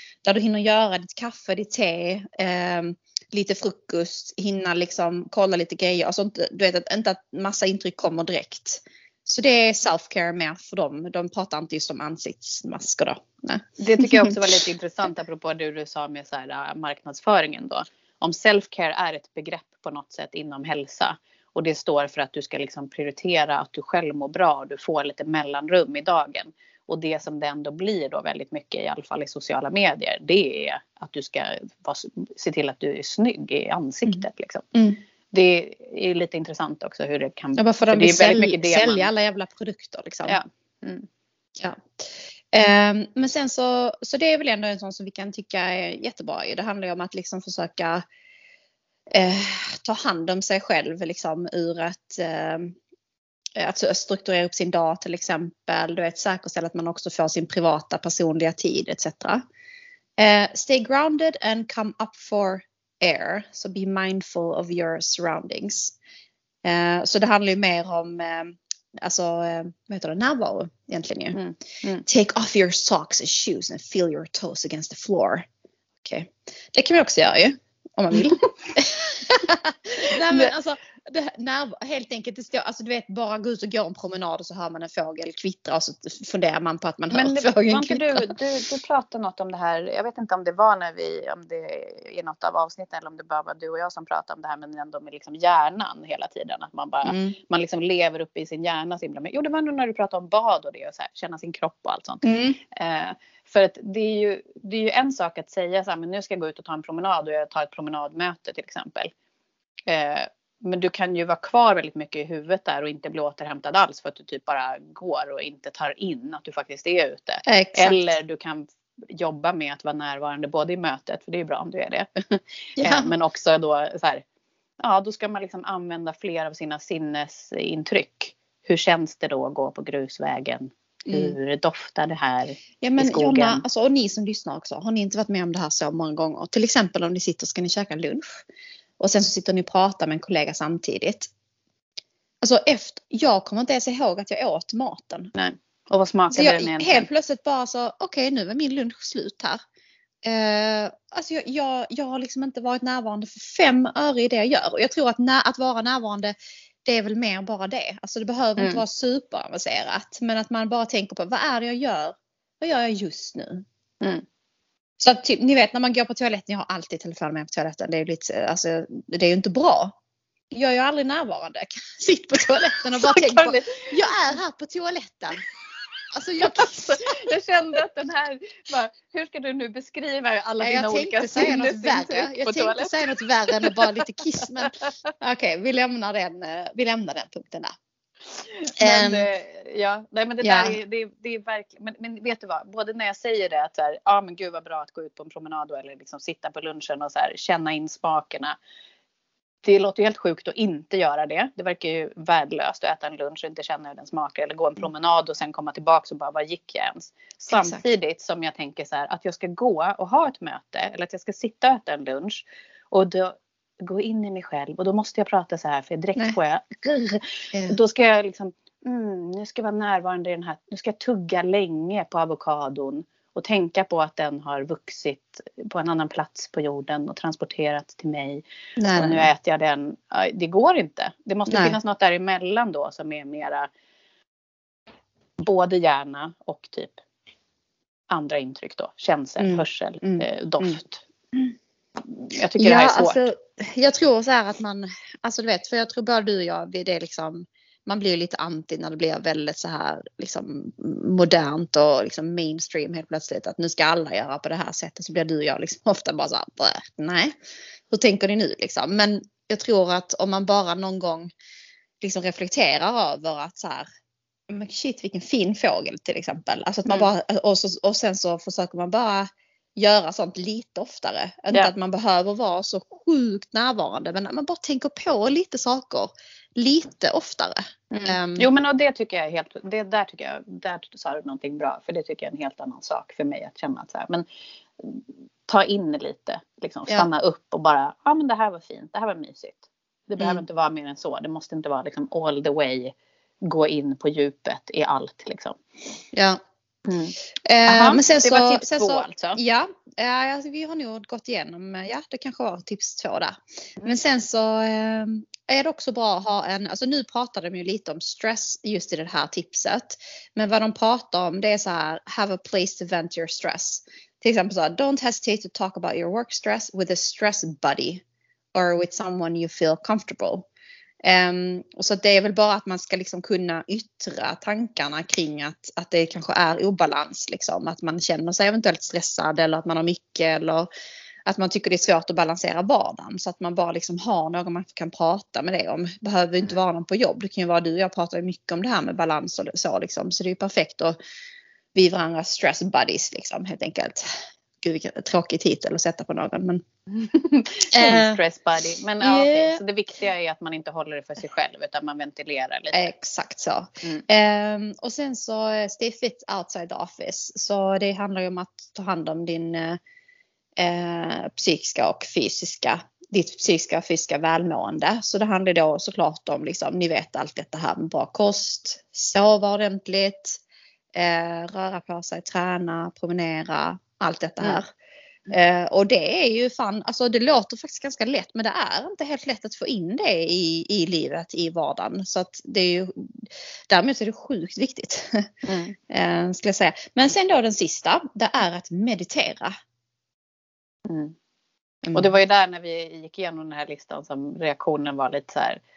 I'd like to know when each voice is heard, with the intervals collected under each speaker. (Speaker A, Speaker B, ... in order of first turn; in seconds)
Speaker A: 0.2-14.4, 34.7-35.0, 37.6-40.4, 41.6-48.0, 49.1-52.8, 53.6-59.4, 60.2-66.0, 66.6-71.4, 72.0-75.5, 76.0-88.4, 97.0-97.4, 102.2-102.6, 117.5-118.2, 122.8-123.1, 131.1-131.3, 132.8-138.4, 139.0-141.3, 142.4-145.3, 146.3-149.6, 150.2-163.7, 165.0-169.9, 170.5-175.4, 176.1-177.2, 180.6-187.8, 188.8-189.3, 190.4-190.8, 207.5-207.8, 228.8-229.3, 231.5-231.8, 239.4-240.8, 242.6-257.3, 257.9-261.3, 262.0-263.9, 264.5-278.5, 296.1-296.4, 297.5-318.0, 318.6-320.5, 321.0-330.7, 331.3-341.0, 341.8-346.6, 347.7-348.2, 349.0-349.6, 352.7-359.8, 360.6-370.4, 370.9-374.7, 375.3-385.3, 385.9-389.6
Speaker B: 13.8-34.6, 35.3-39.1, 40.2-41.1, 71.3-72.0, 87.1-109.1, 109.9-124.2, 124.8-133.6, 145.3-147.1, 172.9-173.9, 176.4-184.1, 188.4-198.6, 199.6-233.7, 235.4-237.0, 238.1-241.0, 242.3-243.2, 277.9-284.2, 284.8-292.9, 293.4-295.6, 296.9-299.4, 346.9-352.9, 385.4-385.8, 390.9-391.1, 391.9-395.6